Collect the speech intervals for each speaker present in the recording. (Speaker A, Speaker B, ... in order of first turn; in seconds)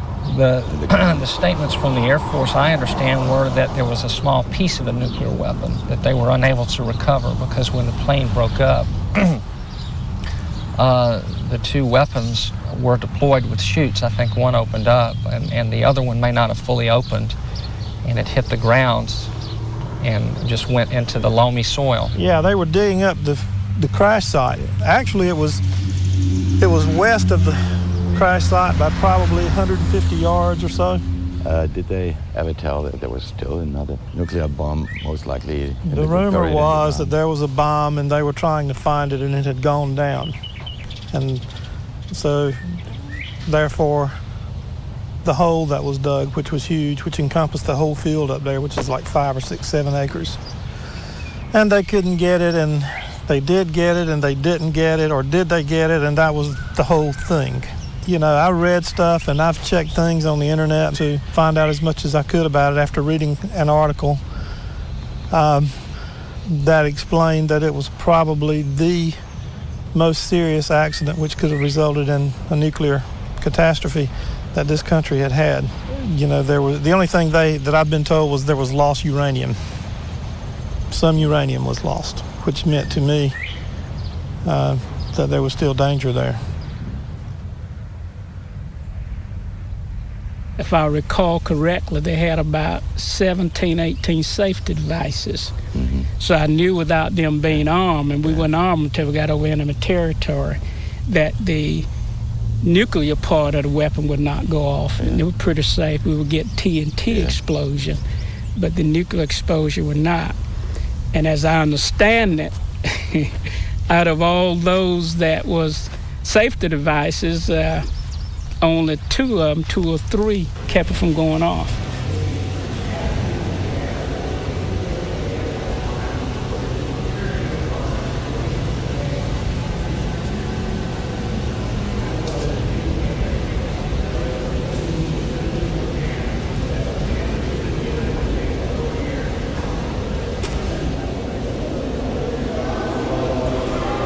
Speaker A: 0.3-9.4, 10.8-17.4, 18.0-19.3, 20.0-22.1
Speaker B: 0.7-1.3, 31.4-37.1, 95.8-96.1, 105.0-105.2, 107.1-107.4
Speaker C: 22.1-25.6, 26.6-31.0, 35.9-40.4, 41.1-41.5, 42.1-42.6, 43.5-44.2, 45.2-50.4, 51.5-64.2, 65.3-65.9, 66.5-69.2, 69.9-79.6, 80.9-83.4, 84.4-86.4
Speaker D: 90.6-95.5, 96.2-101.9, 102.6-108.0, 108.6-110.3, 111.1-113.3, 113.9-117.9, 118.6-121.8